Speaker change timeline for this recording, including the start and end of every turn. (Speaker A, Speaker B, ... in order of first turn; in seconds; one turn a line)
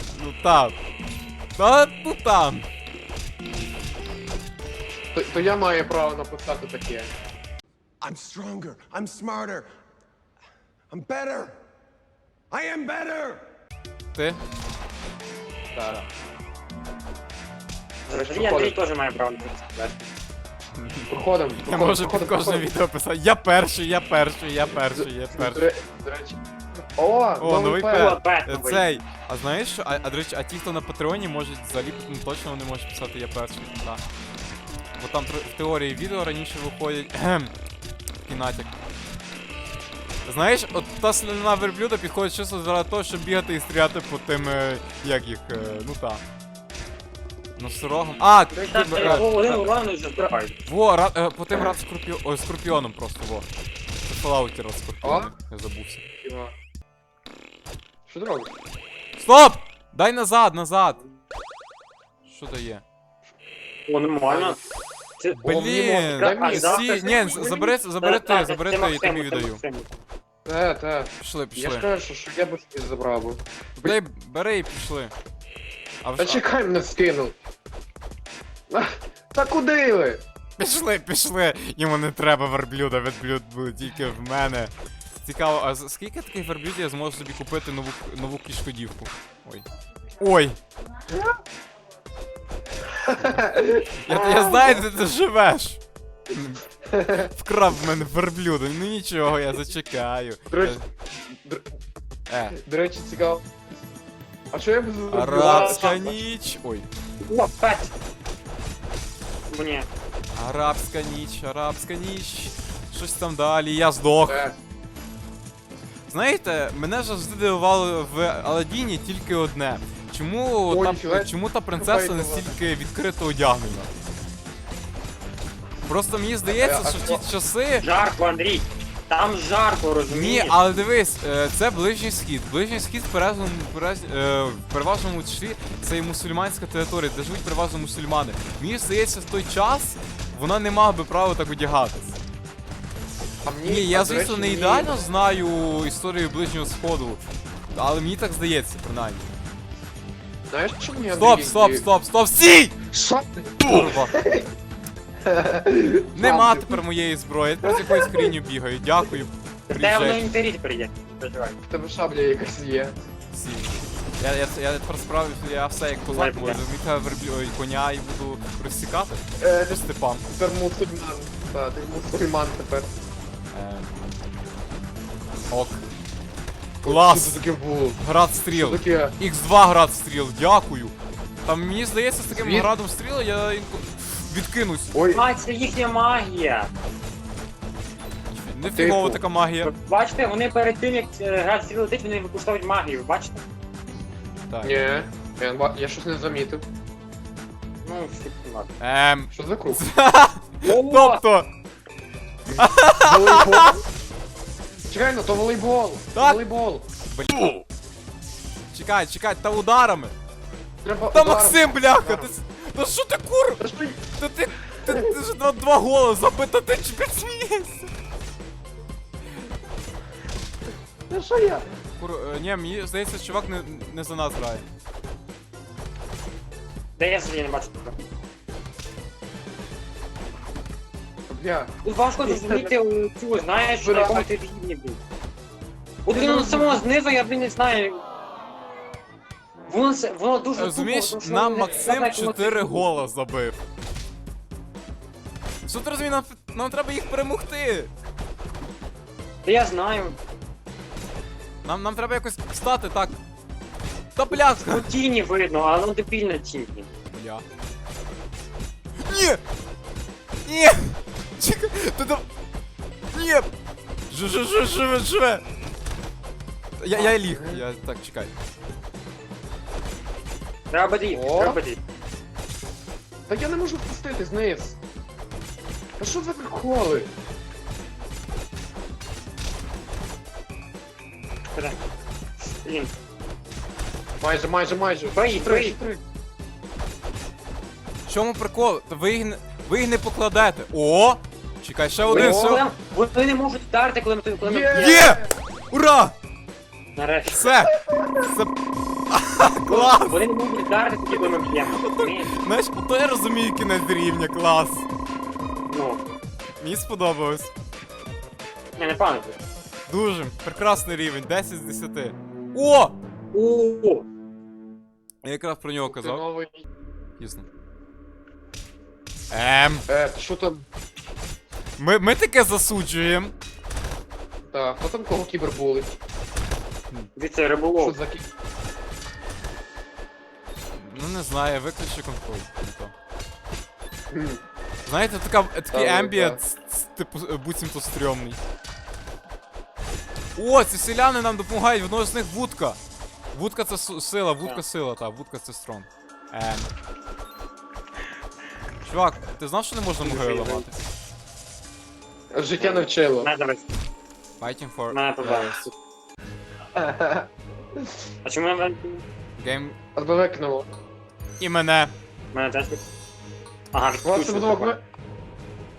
Speaker A: 0.1-0.8
Speaker A: 1.6-2.7
Speaker B: 5.1-7.1
Speaker C: 8.0-9.7
Speaker C: 10.9-11.6
Speaker C: 12.5-13.5
Speaker A: 14.1-14.4
Speaker B: 15.7-16.0
Speaker D: 18.1-20.1
Speaker B: 18.1-18.8
Speaker A: 20.8-21.1
Speaker B: 21.1-22.6
Speaker A: 21.6-25.6
Speaker B: 24.9-26.4
Speaker B: 26.9-28.1
Speaker A: 27.4-34.0
Speaker D: 27.8-28.9
Speaker A: 35.0-37.5
Speaker A: 38.2-38.7
Speaker A: 40.2-46.2
Speaker A: 47.6-49.3
Speaker D: 48.5-50.5
Speaker B: 49.0-49.6
Speaker A: 50.6-53.5
Speaker A: 54.0-56.1
Speaker B: 55.0-55.3
Speaker B: 56.2-56.5
Speaker B: 58.1-58.5
Speaker A: 59.2-61.0
Speaker A: 62.2-62.8
Speaker D: 63.9-64.6
Speaker B: 64.2-64.5
Speaker A: 65.3-69.6
Speaker B: 65.4-67.7
Speaker D: 66.1-69.9
Speaker B: 70.4-74.0
Speaker A: 71.2-71.9
Speaker A: 73.8-75.1
Speaker A: 76.0-76.4
Speaker B: 76.2-77.3
Speaker B: 78.7-80.2
Speaker A: 80.6-89.6
Speaker A: 90.2-90.6
Speaker B: 93.0-94.8
Speaker A: 94.0-96.6
Speaker B: 96.8-97.3
Speaker A: 97.2-100.8
Speaker B: 100.5-100.8
Speaker B: 101.3-101.7
Speaker A: 102.3-102.6
Speaker B: 102.5-103.5
Speaker B: 104.5-106.2
Speaker A: 105.1-106.9
Speaker D: 105.3-106.0
Speaker D: 107.2-107.9
Speaker D: 109.5-109.9
Speaker A: 110.3-114.5
Speaker B: 114.3-114.5
Speaker A: 116.1-123.9
Speaker B: 120.7-122.6
Speaker A: 125.8-127.9
Speaker B: 126.5-127.2
Speaker D: 127.8-130.6
Speaker A: 130.1-142.2
Speaker B: 143.4-145.0
Speaker A: 143.6-147.2
Speaker A: 147.7-149.3
Speaker B: 150.5-151.9
Speaker A: 151.1-152.8
Speaker B: 152.9-154.5
Speaker A: 153.6-154.1
Speaker B: 155.2-156.8
Speaker A: 156.1-160.2
Speaker B: 157.7-158.3
Speaker D: 159.7-161.6
Speaker B: 161.7-162.9
Speaker A: 163.3-170.2
Speaker D: 166.1-166.6
Speaker B: 169.4-169.8
Speaker B: 170.3-172.9
Speaker A: 173.5-173.9
Speaker A: 175.5-175.8
Speaker A: 176.8-177.4
Speaker B: 176.8-178.0
Speaker A: 178.0-180.9
Speaker B: 178.5-179.1
Speaker A: 181.4-184.9
Speaker B: 182.3-182.7
Speaker B: 184.9-185.2
Speaker D: 185.1-186.7
Speaker A: 188.3-189.7
Speaker B: 188.7-189.2
Speaker D: 189.6-193.4
Speaker A: 194.5-194.8
Speaker B: 194.6-196.6
Speaker D: 197.8-198.7
Speaker A: 198.8-201.5
Speaker B: 199.3-199.8
Speaker D: 200.6-201.2
Speaker B: 202.4-203.8
Speaker A: 202.6-203.7
Speaker B: 204.9-206.8
Speaker A: 206.1-206.4
Speaker A: 207.1-207.6
Speaker A: 208.7-210.1
Speaker B: 210.8-212.3
Speaker A: 211.1-217.9
Speaker B: 213.6-214.0
Speaker B: 214.8-215.1
Speaker B: 221.1-221.7
Speaker A: 222.0-224.7
Speaker D: 227.0-227.9
Speaker B: 231.3-231.7
Speaker D: 231.8-235.0
Speaker B: 232.2-232.7
Speaker B: 233.5-234.3
Speaker D: 236.1-238.0
Speaker B: 236.1-236.8
Speaker D: 239.7-242.9
Speaker A: 240.5-243.6
Speaker A: 245.7-247.9
Speaker D: 249.4-250.2
Speaker A: 251.6-253.2
Speaker A: 254.2-254.9
Speaker D: 254.4-256.9
Speaker A: 257.1-257.4
Speaker A: 259.0-259.4
Speaker A: 260.4-262.2
Speaker A: 263.1-263.5
Speaker A: 264.1-265.4
Speaker A: 266.8-268.3
Speaker B: 266.9-267.6
Speaker D: 270.7-271.8
Speaker B: 271.1-271.6
Speaker B: 273.3-274.8
Speaker B: 276.0-277.1
Speaker D: 282.4-282.9
Speaker B: 284.2-286.0
Speaker D: 285.1-285.8
Speaker A: 288.1-292.6
Speaker B: 292.1-292.6
Speaker D: 292.1-295.1
Speaker B: 294.4-295.3
Speaker A: 294.7-296.1
Speaker D: 296.9-297.5
Speaker A: 297.3-298.5
Speaker B: 297.7-298.3
Speaker A: 299.1-300.3
Speaker D: 299.6-302.4
Speaker A: 301.1-304.9
Speaker D: 305.7-306.0
Speaker A: 306.6-307.5
Speaker D: 308.8-309.4
Speaker A: 309.9-312.9
Speaker D: 313.3-314.1
Speaker A: 315.2-316.2
Speaker B: 315.8-316.6
Speaker A: 317.2-317.5
Speaker A: 319.3-319.9
Speaker B: 319.9-320.6
Speaker A: 321.8-323.3
Speaker B: 324.5-326.0
Speaker D: 327.1-328.0
Speaker B: 327.8-328.3
Speaker A: 330.7-332.9
Speaker B: 334.1-334.4
Speaker A: 334.9-338.4
Speaker B: 335.7-336.4
Speaker A: 340.4-342.8
Speaker A: 343.3-346.7
Speaker A: 348.8-350.7
Speaker D: 350.0-350.7
Speaker B: 352.3-353.3
Speaker D: 352.6-353.7
Speaker A: 354.4-355.0
Speaker D: 354.9-355.6
Speaker B: 355.2-355.7
Speaker B: 356.7-357.3
Speaker D: 358.2-359.0
Speaker A: 359.4-359.8
Speaker B: 359.9-360.7
Speaker A: 361.4-361.9
Speaker D: 362.3-362.8
Speaker D: 363.7-364.8
Speaker B: 364.0-364.8